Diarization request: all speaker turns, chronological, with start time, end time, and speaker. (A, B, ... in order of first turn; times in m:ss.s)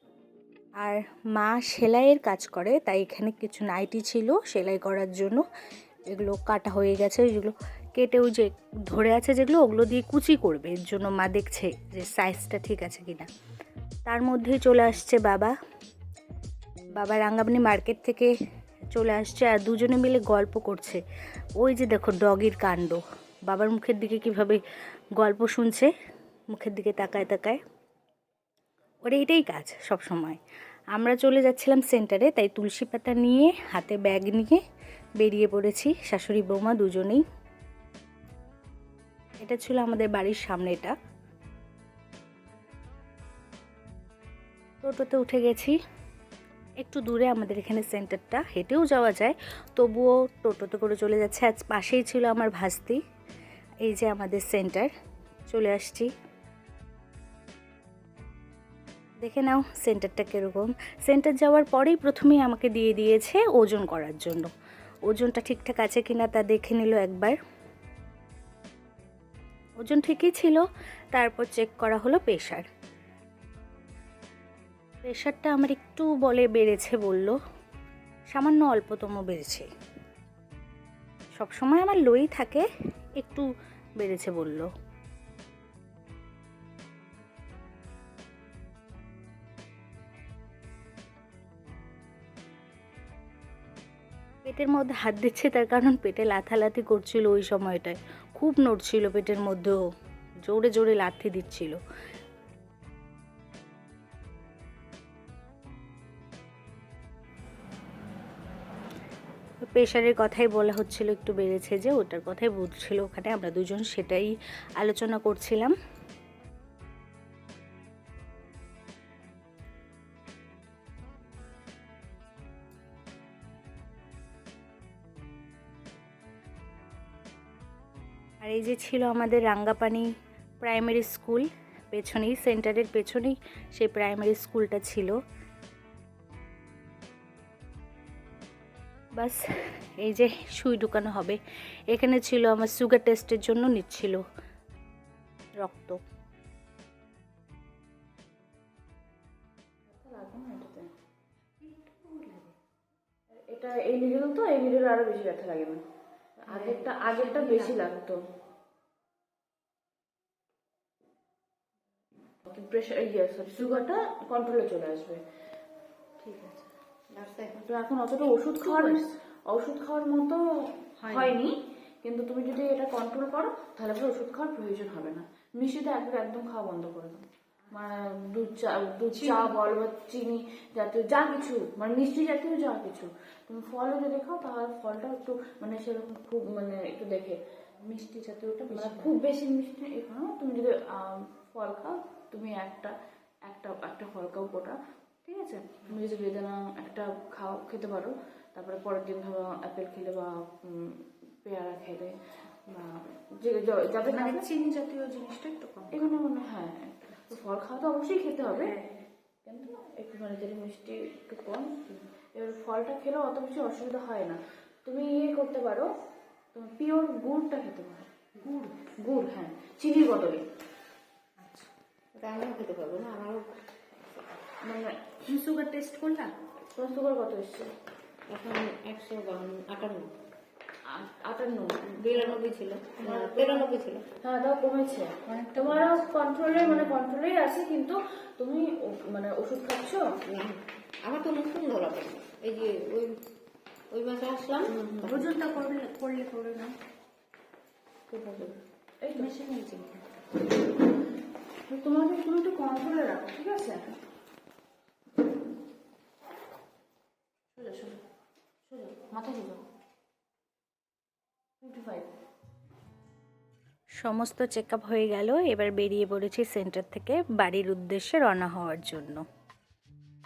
0:00.8-0:05.4 A
0:06.1-0:13.3 A
0:14.0-0:15.5 A
0:16.9-0:18.3 A
0:18.9-0:21.0 A
0:21.6-0:24.6 A
0:25.2-0:25.9 A
0:26.5-0:27.6 A
0:29.0-0:30.4 A
0:30.9-0:34.6 A
0:35.2-0:37.2 A
0:39.4-0:41.0 A
0:44.8-0:45.8 A
0:46.8-0:53.0 A
0:53.8-0:54.9 A
0:55.5-0:56.1 A
0:59.2-1:04.5 A
1:05.1-1:07.4 A
1:09.8-1:12.6 A
1:15.0-1:17.4 A
1:18.3-1:19.7 A
1:21.4-1:22.7 A
1:23.2-1:23.5 A
1:24.0-1:24.7 A
1:34.4-1:39.8 A
1:40.4-1:41.8 A
1:49.7-1:55.7 A
2:08.4-2:10.1 A
2:10.6-2:15.2 A
2:20.0-2:21.4 A
2:21.9-2:24.2 A
2:25.6-2:26.0 A
2:29.9-2:30.9 B
2:31.6-2:32.5 A
2:33.3-2:35.8 B
2:36.5-2:38.2 B
2:36.5-2:37.7 A
2:42.4-2:45.2 B
2:46.2-2:46.7 A
2:47.1-2:47.6 C
2:47.6-3:24.5 B
2:48.5-2:49.0 A
2:51.0-2:51.4 A
2:59.1-2:59.6 A
3:08.7-3:09.1 A
3:24.1-3:26.2 A
3:25.9-3:28.7 B
3:28.5-3:29.0 A
3:29.4-3:35.9 B
3:36.5-3:38.1 B
3:38.8-3:40.4 B
3:41.4-3:41.7 A
3:42.1-3:43.4 C
3:44.6-3:45.3 B
3:45.3-3:46.3 A
3:46.7-3:47.7 B
3:48.3-3:50.1 C
3:50.8-3:52.4 B
3:51.8-3:54.0 C
3:53.0-4:00.1 B
3:55.3-3:56.2 A
3:56.6-3:56.9 C
4:00.2-4:03.2 C
4:03.9-4:05.3 C
4:04.7-4:05.3 B
4:05.0-4:06.7 A
4:08.1-4:09.3 B
4:09.2-4:10.0 A
4:11.7-4:13.9 B
4:17.6-4:18.0 B
4:18.6-4:19.6 B
4:21.6-4:22.1 B
4:24.0-4:29.2 A